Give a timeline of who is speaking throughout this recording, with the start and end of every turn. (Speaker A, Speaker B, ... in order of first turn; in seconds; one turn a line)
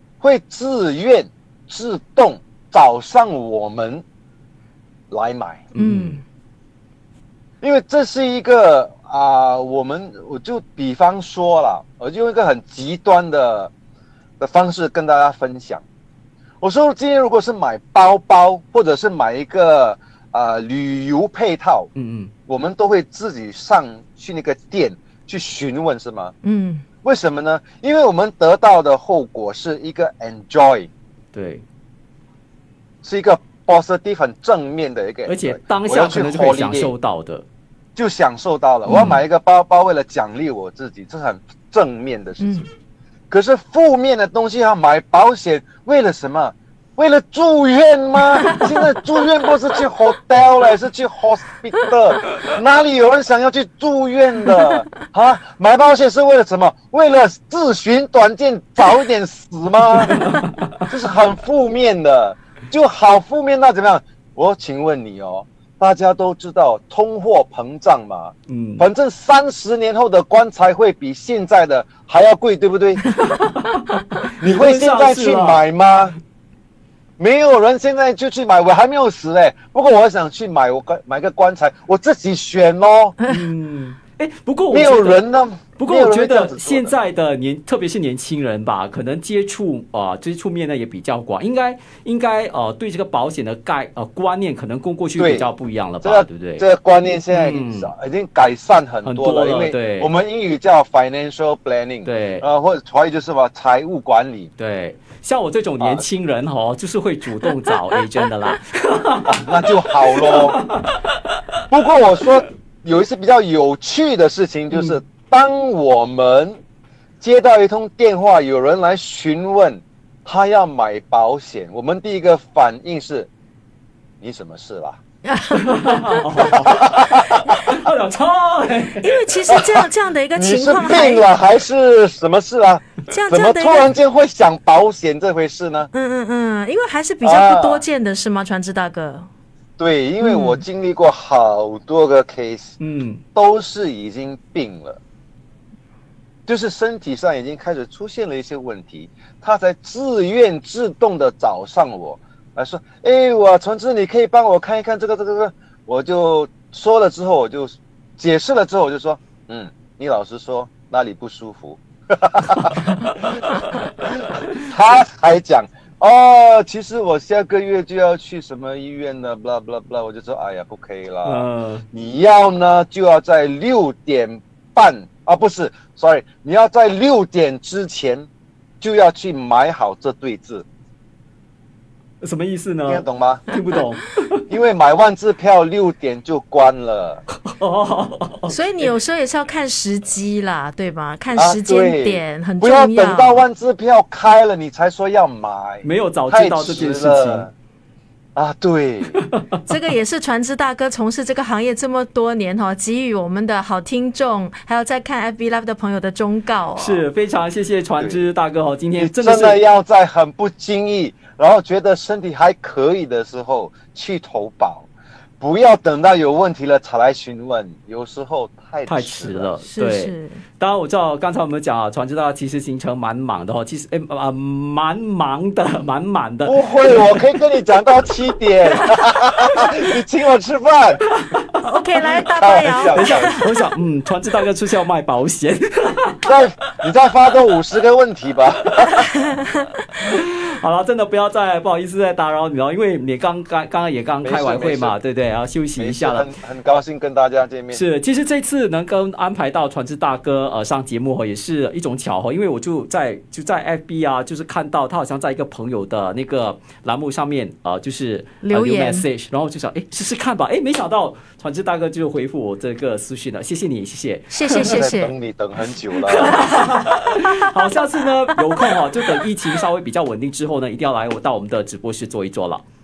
Speaker A: 0.2-4.0
Speaker A: 5.1-5.7
Speaker B: 5.7-6.2
Speaker C: 5.8-6.2
Speaker A: 7.6-13.7
Speaker A: 14.4-15.8
Speaker A: 16.6-21.9
Speaker B: 21.9-22.3
Speaker A: 22.5-26.3
Speaker C: 26.4-26.8
Speaker A: 27.0-30.9
Speaker B: 31.3-31.6
Speaker A: 33.0-36.9
Speaker B: 35.2-37.5
Speaker A: 38.0-42.7
Speaker B: 38.9-39.2
Speaker A: 43.3-73.1
Speaker B: 60.0-60.8
Speaker B: 68.5-68.9
Speaker B: 73.2-75.6
Speaker A: 74.4-76.1
Speaker A: 77.2-83.2
Speaker B: 83.2-85.2
Speaker A: 84.7-86.9
Speaker B: 85.8-96.6
Speaker A: 95.2-95.5
Speaker A: 96.0-104.5
Speaker B: 97.3-97.9
Speaker B: 99.0-100.1
Speaker B: 102.0-102.4
Speaker B: 104.6-111.6
Speaker A: 109.2-110.6
Speaker A: 111.7-116.6
Speaker B: 114.7-115.0
Speaker A: 117.2-123.3
Speaker A: 124.2-125.0
Speaker C: 125.2-126.4
Speaker B: 125.5-129.2
Speaker A: 126.4-127.7
Speaker C: 129.0-131.2
Speaker A: 129.5-135.9
Speaker C: 133.1-133.9
Speaker C: 135.9-139.3
Speaker A: 137.2-137.8
Speaker A: 139.8-142.8
Speaker C: 140.2-140.6
Speaker B: 142.8-143.2
Speaker A: 143.3-145.0
Speaker A: 146.5-163.3
Speaker B: 162.5-164.7
Speaker A: 164.5-178.3
Speaker B: 171.2-171.8
Speaker A: 178.8-180.6
Speaker B: 182.2-184.4
Speaker A: 182.9-183.4
Speaker A: 184.5-187.2
Speaker B: 187.3-188.6
Speaker C: 188.5-193.4
Speaker A: 191.3-197.5
Speaker B: 195.8-197.5
Speaker A: 198.3-199.2
Speaker B: 199.1-199.6
Speaker C: 199.7-207.0
Speaker B: 206.8-209.6
Speaker A: 208.0-208.3
Speaker A: 209.0-214.9
Speaker A: 215.4-219.6
Speaker B: 218.9-227.2
Speaker C: 219.7-220.4
Speaker A: 226.4-231.0
Speaker C: 231.6-233.4
Speaker A: 232.4-233.4
Speaker B: 232.9-236.3
Speaker A: 236.2-239.1
Speaker B: 238.8-239.1
Speaker B: 239.9-246.3
Speaker A: 244.2-244.9
Speaker A: 245.8-247.8
Speaker B: 247.7-264.7
Speaker C: 258.4-259.1
Speaker C: 264.3-265.1
Speaker A: 264.6-266.4
Speaker B: 266.0-272.6
Speaker C: 267.4-267.7